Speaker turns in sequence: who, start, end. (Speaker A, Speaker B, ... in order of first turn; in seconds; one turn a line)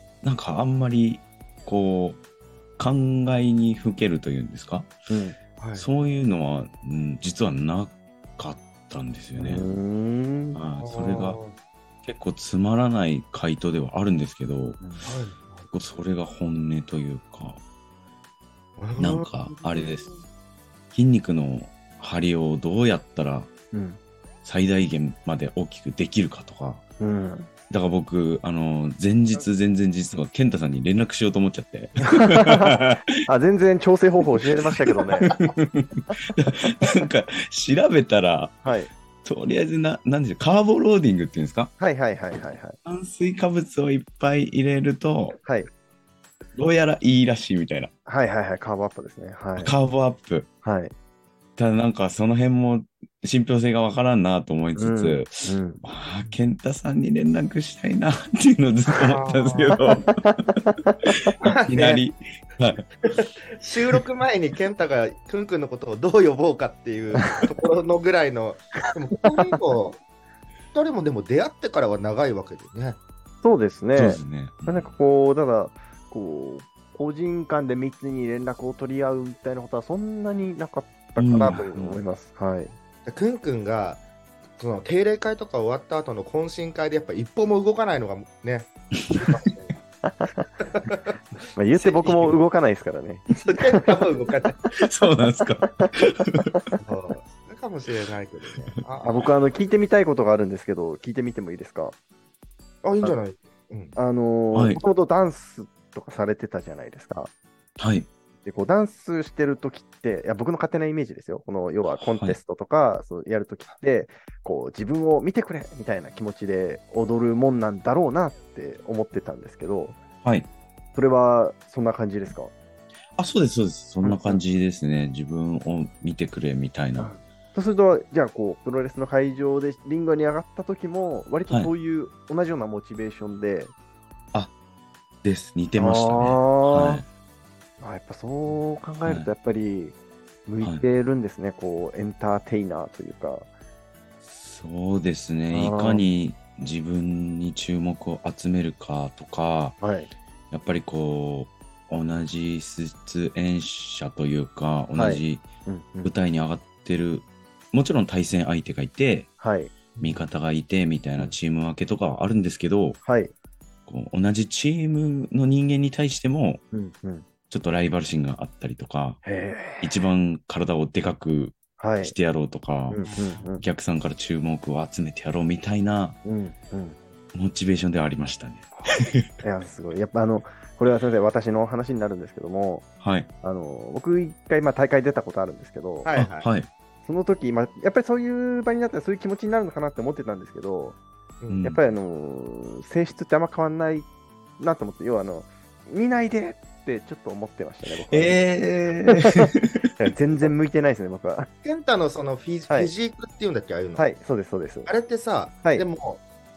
Speaker A: 0.2-2.2
Speaker A: 2.8-4.9
Speaker B: 5.1-5.4
Speaker C: 5.6-5.9
Speaker A: 5.8-9.7
Speaker B: 9.3-10.6
Speaker A: 10.5-11.4
Speaker C: 10.8-11.6
Speaker A: 12.0-14.8
Speaker C: 15.0-15.7
Speaker A: 15.7-17.6
Speaker C: 18.8-20.2
Speaker A: 19.0-20.1
Speaker A: 20.9-23.5
Speaker B: 23.7-24.0
Speaker A: 24.4-26.8
Speaker B: 27.0-27.5
Speaker A: 27.7-33.1
Speaker B: 32.0-35.3
Speaker A: 35.2-38.6
Speaker B: 38.6-38.9
Speaker A: 39.2-41.7
Speaker B: 41.8-42.8
Speaker A: 42.8-45.4
Speaker B: 45.4-45.7
Speaker A: 46.6-47.9
Speaker B: 48.1-49.8
Speaker A: 49.6-50.5
Speaker B: 50.6-50.9
Speaker A: 51.6-60.4
Speaker B: 54.8-55.8
Speaker C: 59.0-59.9
Speaker B: 60.2-61.0
Speaker A: 61.0-62.9
Speaker C: 61.4-62.0
Speaker C: 63.1-70.0
Speaker C: 70.7-73.0
Speaker B: 73.4-82.8
Speaker A: 73.9-75.0
Speaker A: 81.2-82.0
Speaker C: 83.0-84.0
Speaker C: 84.6-89.8
Speaker B: 90.0-90.5
Speaker C: 90.6-91.1
Speaker B: 91.6-93.9
Speaker C: 91.8-92.3
Speaker C: 93.4-94.6
Speaker A: 94.7-96.5
Speaker C: 96.8-99.3
Speaker B: 99.0-102.0
Speaker C: 102.8-104.0
Speaker B: 104.0-107.3
Speaker A: 104.5-104.8
Speaker A: 107.8-108.1
Speaker B: 108.4-120.0
Speaker A: 112.0-112.4
Speaker A: 120.2-120.5
Speaker B: 120.9-122.5
Speaker A: 123.2-127.1
Speaker B: 124.0-124.4
Speaker B: 127.0-133.7
Speaker A: 135.2-137.1
Speaker B: 135.8-137.0
Speaker B: 137.8-139.9
Speaker A: 139.1-139.3
Speaker B: 140.5-143.5
Speaker A: 140.6-140.9
Speaker A: 144.2-149.8
Speaker B: 145.5-146.0
Speaker B: 149.8-150.1
Speaker A: 150.5-155.5
Speaker B: 154.9-156.1
Speaker A: 156.0-159.3
Speaker B: 159.4-159.7
Speaker C: 159.9-160.2
Speaker A: 160.0-163.0
Speaker B: 163.0-163.3
Speaker A: 163.9-166.6
Speaker B: 166.7-167.2
Speaker A: 167.5-169.2
Speaker B: 169.2-170.0
Speaker A: 169.8-176.2
Speaker B: 171.8-172.1
Speaker B: 172.9-173.6
Speaker B: 176.2-177.0
Speaker A: 177.3-179.3
Speaker B: 179.4-182.9
Speaker A: 183.0-183.3
Speaker B: 183.4-186.1
Speaker C: 186.1-186.5
Speaker A: 186.1-186.7
Speaker B: 187.1-191.0
Speaker C: 191.4-191.7
Speaker A: 191.5-191.8
Speaker B: 191.6-194.1
Speaker B: 194.6-198.5
Speaker A: 198.1-199.9
Speaker B: 199.1-201.5
Speaker C: 201.6-204.1
Speaker B: 204.0-204.9
Speaker C: 204.9-206.2